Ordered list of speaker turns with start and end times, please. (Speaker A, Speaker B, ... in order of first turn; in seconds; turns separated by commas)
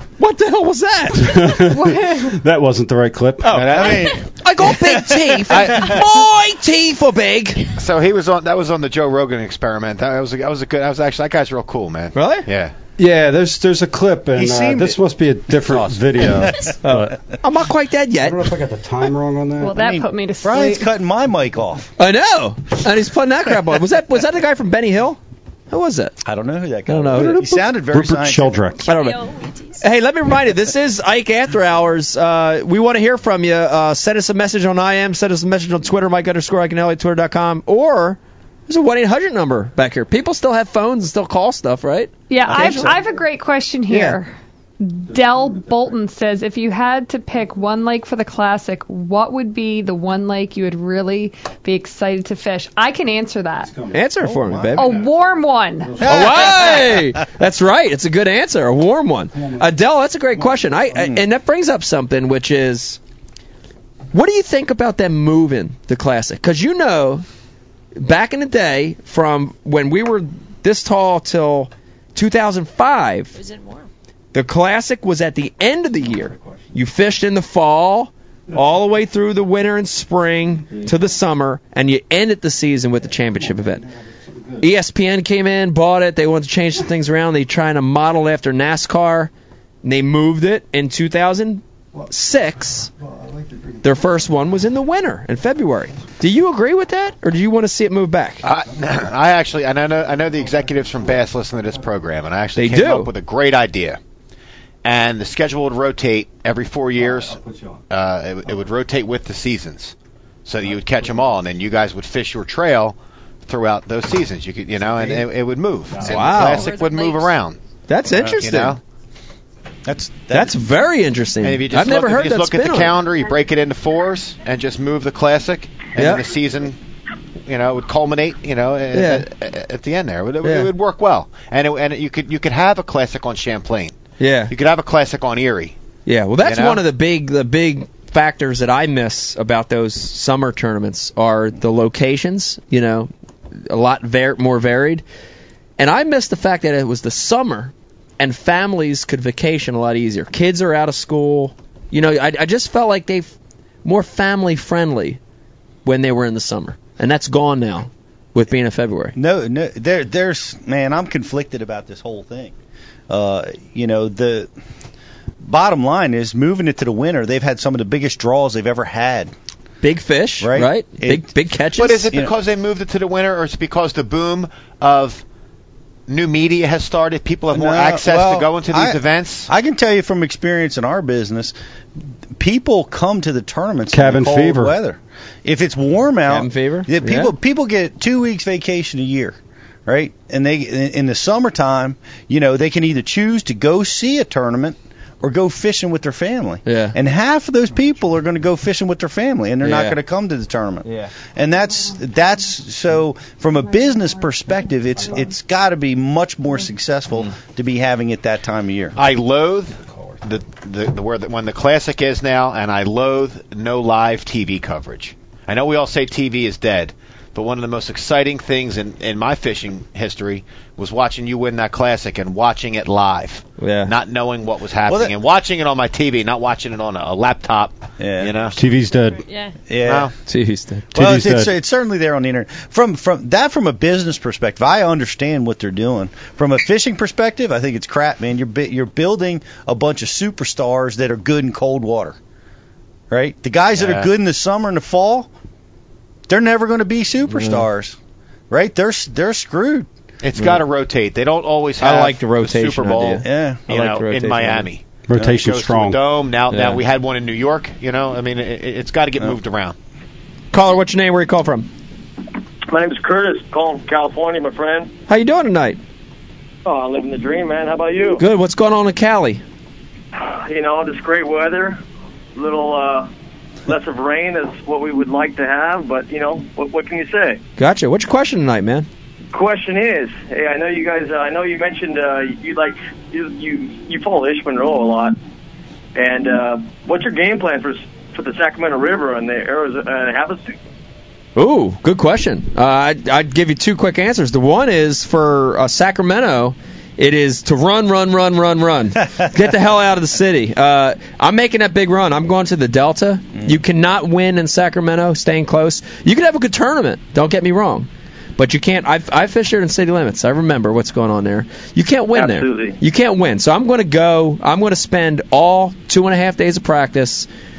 Speaker A: 0.2-1.6, Speaker B: 1.2-4.0, Speaker C: 1.6-2.4, Speaker A: 3.4-7.7, Speaker D: 3.5-4.2, Speaker E: 4.8-5.6, Speaker D: 5.5-6.1, Speaker D: 7.8-12.7, Speaker A: 12.2-12.5, Speaker B: 13.0-17.2, Speaker D: 14.4-14.9, Speaker D: 15.7-16.1, Speaker E: 16.2-16.7, Speaker A: 16.8-18.5, Speaker B: 18.2-19.8, Speaker C: 19.6-20.9, Speaker E: 19.8-21.9, Speaker A: 22.0-25.2, Speaker A: 25.7-26.2, Speaker E: 26.2-28.7, Speaker A: 26.9-27.6, Speaker B: 27.3-28.8, Speaker F: 28.8-29.8, Speaker A: 28.9-29.2, Speaker A: 29.8-43.0, Speaker C: 42.3-53.7, Speaker E: 42.5-43.0, Speaker A: 43.9-44.2, Speaker A: 53.9-54.9, Speaker E: 54.2-54.9, Speaker C: 54.8-56.0, Speaker B: 55.9-56.7, Speaker A: 56.0-63.0, Speaker E: 56.0-56.9, Speaker E: 61.0-61.2, Speaker A: 64.1-67.2, Speaker A: 68.0-73.3, Speaker F: 73.3-73.9, Speaker A: 74.3-83.9, Speaker A: 84.6-89.3, Speaker A: 89.8-92.9, Speaker A: 93.8-98.4, Speaker D: 98.4-104.0, Speaker A: 102.6-103.1, Speaker D: 104.8-110.0, Speaker B: 107.4-107.7, Speaker D: 110.5-118.8, Speaker A: 116.0-116.7, Speaker F: 116.5-117.3, Speaker A: 117.9-118.8, Speaker E: 119.9-120.6, Speaker A: 120.3-123.0, Speaker D: 121.4-126.8, Speaker A: 126.0-126.2, Speaker D: 127.5-134.0, Speaker A: 128.9-129.2, Speaker A: 130.4-130.7, Speaker A: 134.2-134.5, Speaker D: 134.5-135.8, Speaker A: 136.1-145.0, Speaker D: 136.4-136.8, Speaker A: 145.8-153.3, Speaker A: 153.8-155.2, Speaker A: 155.8-159.2, Speaker E: 159.2-162.5, Speaker E: 163.1-164.5, Speaker E: 165.4-169.3, Speaker A: 169.8-172.1, Speaker E: 170.4-171.3, Speaker D: 171.8-175.2, Speaker D: 176.1-179.5, Speaker E: 177.5-181.5, Speaker E: 182.3-209.0, Speaker B: 183.9-184.8, Speaker A: 186.3-187.3, Speaker A: 196.7-197.0, Speaker A: 199.6-200.0, Speaker A: 200.8-201.1, Speaker D: 209.0-228.6, Speaker A: 223.6-223.9, Speaker E: 224.9-225.2, Speaker E: 228.0-228.5, Speaker B: 228.6-229.2, Speaker F: 228.9-229.6, Speaker E: 229.7-230.1, Speaker D: 229.8-230.1, Speaker A: 230.3-230.9, Speaker E: 230.9-242.2, Speaker B: 230.9-231.5, Speaker E: 243.1-245.3, Speaker E: 246.3-248.0, Speaker A: 247.3-247.7, Speaker E: 248.5-249.9, Speaker D: 250.2-259.8, Speaker A: 250.4-250.6, Speaker A: 251.8-254.7, Speaker E: 253.2-253.6, Speaker B: 255.1-256.0, Speaker A: 256.5-256.8, Speaker A: 260.5-261.7, Speaker G: 262.7-264.9, Speaker A: 265.1-265.8, Speaker G: 266.6-268.2, Speaker A: 268.2-269.4, Speaker G: 270.1-271.8, Speaker G: 272.4-273.1, Speaker G: 273.6-277.4, Speaker A: 277.6-278.9, Speaker G: 279.3-285.2, Speaker G: 285.9-290.6, Speaker A: 291.4-317.3, Speaker G: 312.1-312.8